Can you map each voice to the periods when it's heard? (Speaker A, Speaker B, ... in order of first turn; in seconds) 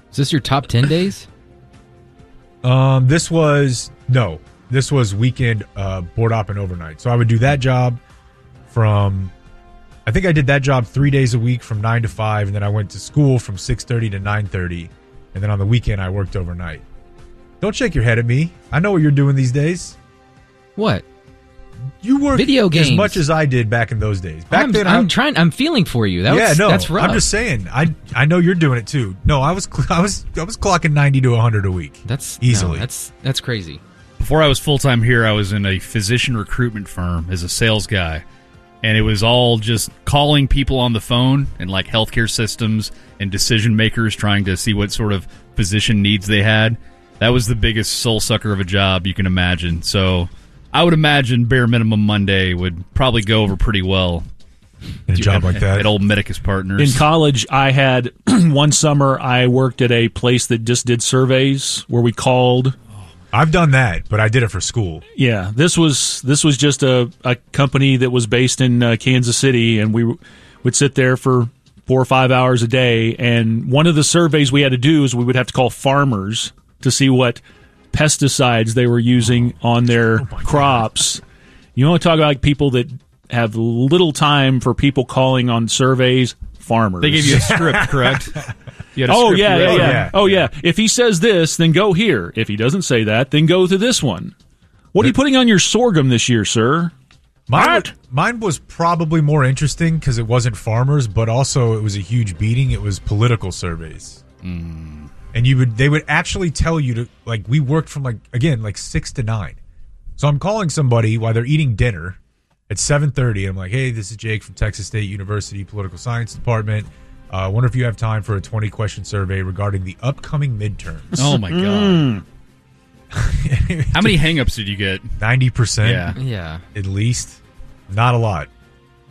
Speaker A: 0.1-1.3, 20.8-21.0, 22.3-23.2, 24.5-27.3, 32.0-33.8, 126.1-126.6
Speaker B: 2.6-8.0, 8.7-9.3, 10.1-16.8, 17.6-20.0, 22.0-25.1, 26.3-32.9, 55.1-55.9, 63.3-65.0, 80.2-80.8, 87.3-88.2, 89.6-90.3, 97.5-104.2, 105.3-109.6, 110.2-112.2, 112.7-121.2, 123.1-124.3, 125.2-126.2, 126.7-128.5
Speaker C: 34.2-38.2, 38.8-54.2, 55.1-57.1, 87.0-88.4, 88.9-90.4, 104.4-105.1, 121.2-122.2, 123.9-125.1, 125.8-126.2
Speaker D: 56.8-62.8, 65.2-81.2, 81.8-87.5, 89.0-94.3, 94.9-96.9, 97.5-97.9, 121.2-122.2